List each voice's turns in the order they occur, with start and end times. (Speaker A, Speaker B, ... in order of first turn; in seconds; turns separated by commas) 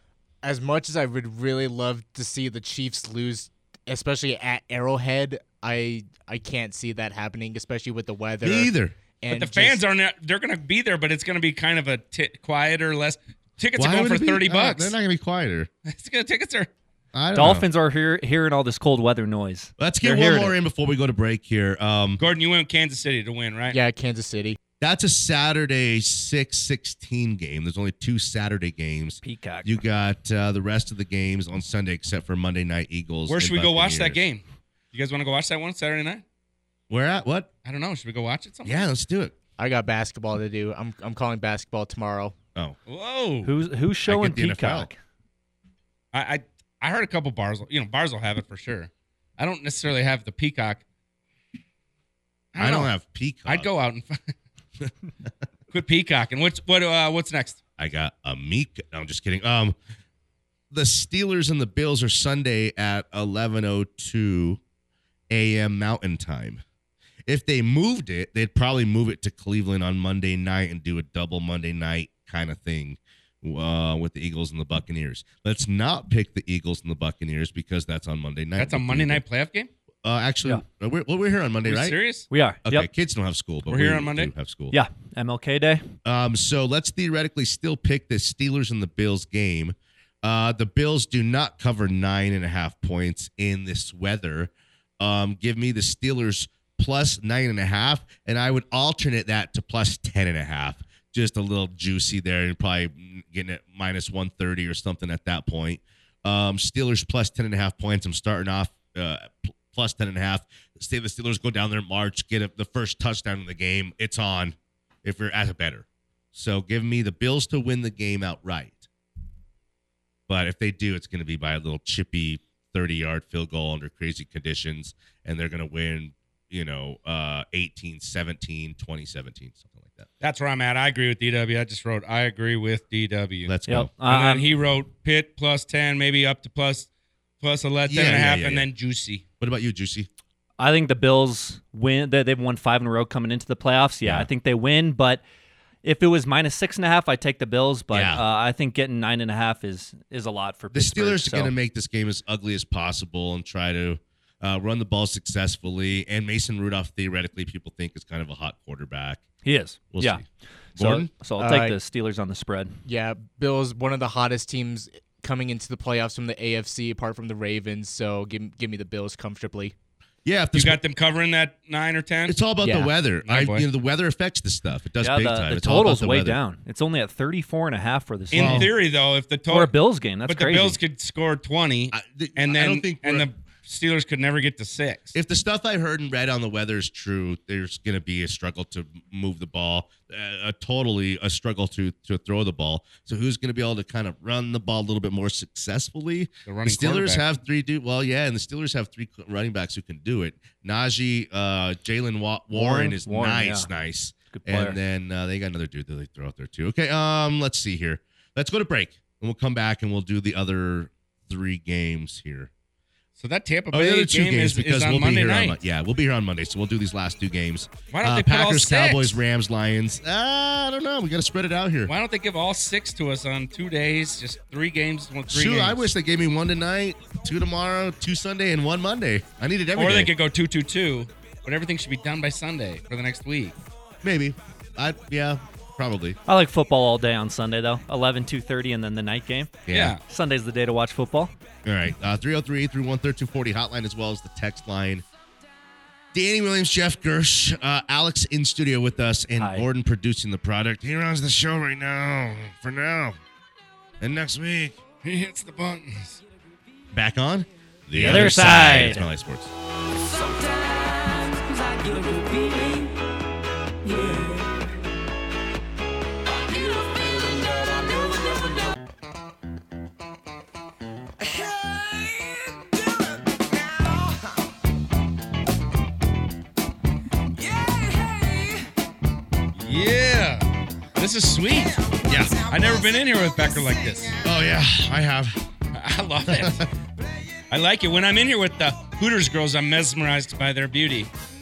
Speaker A: 0.4-9.8, Speaker B: 8.4-8.9, Speaker C: 9.3-14.9, Speaker B: 13.8-15.7, Speaker C: 15.8-16.7, Speaker B: 17.1-17.7, Speaker D: 17.3-20.5, Speaker B: 19.8-22.2, Speaker C: 22.2-23.8, Speaker A: 23.7-24.6, Speaker B: 24.8-34.2, Speaker D: 29.2-29.8, Speaker C: 33.3-36.2, Speaker B: 36.9-37.5, Speaker C: 37.6-38.9, Speaker B: 38.6-39.3, Speaker A: 39.6-42.3, Speaker C: 42.9-43.5, Speaker D: 43.4-45.0, Speaker B: 44.1-44.9, Speaker C: 46.1-50.8, Speaker C: 52.5-52.9, Speaker B: 52.5-53.7, Speaker C: 53.5-54.3, Speaker C: 55.7-57.6, Speaker B: 57.8-59.7, Speaker B: 60.7-64.6, Speaker B: 65.3-66.6, Speaker B: 67.2-79.2, Speaker C: 78.6-79.7, Speaker B: 80.0-82.0, Speaker C: 81.6-82.3, Speaker D: 82.3-82.9, Speaker B: 82.6-84.8, Speaker C: 83.7-84.3, Speaker D: 84.7-85.8, Speaker B: 86.0-118.9, Speaker B: 120.3-130.1, Speaker C: 130.2-133.5, Speaker B: 133.4-133.9, Speaker D: 133.7-134.4, Speaker C: 134.0-136.9, Speaker C: 137.4-139.2, Speaker B: 137.9-138.7, Speaker B: 139.4-140.1, Speaker D: 140.6-145.2, Speaker B: 144.0-144.3, Speaker D: 145.8-151.5, Speaker B: 147.9-148.2, Speaker B: 150.7-159.2, Speaker D: 159.4-160.2, Speaker B: 159.9-160.2, Speaker B: 160.8-161.1, Speaker D: 160.8-162.8, Speaker A: 161.4-161.8, Speaker A: 162.8-169.7, Speaker B: 170.2-170.8, Speaker C: 170.5-172.3, Speaker B: 172.3-176.4, Speaker A: 172.6-172.9, Speaker C: 173.2-173.7, Speaker D: 175.0-178.7, Speaker C: 178.3-179.7, Speaker B: 178.3-178.7, Speaker D: 179.5-180.8, Speaker C: 180.2-185.1, Speaker B: 181.9-183.3, Speaker B: 185.1-212.5, Speaker C: 196.4-197.2, Speaker D: 202.5-203.7, Speaker D: 204.3-204.8, Speaker C: 213.2-215.6, Speaker B: 213.7-221.9, Speaker C: 217.9-219.2, Speaker C: 221.9-225.9, Speaker B: 225.3-230.1, Speaker C: 229.8-233.6, Speaker B: 234.0-236.2, Speaker D: 236.3-241.3, Speaker B: 239.7-239.9, Speaker C: 239.7-240.0, Speaker B: 241.6-245.0, Speaker B: 246.1-253.2, Speaker D: 249.4-249.7, Speaker B: 254.0-254.8, Speaker C: 255.0-256.2, Speaker B: 256.9-259.5, Speaker D: 257.9-259.1, Speaker E: 260.0-262.9, Speaker E: 263.9-264.4, Speaker E: 266.4-268.7, Speaker E: 271.2-274.3, Speaker E: 277.4-278.6, Speaker C: 279.5-281.8, Speaker E: 281.5-284.2, Speaker B: 282.1-282.4, Speaker C: 282.5-284.1, Speaker B: 284.2-285.4, Speaker C: 285.7-286.6, Speaker B: 286.3-286.7, Speaker C: 287.5-291.1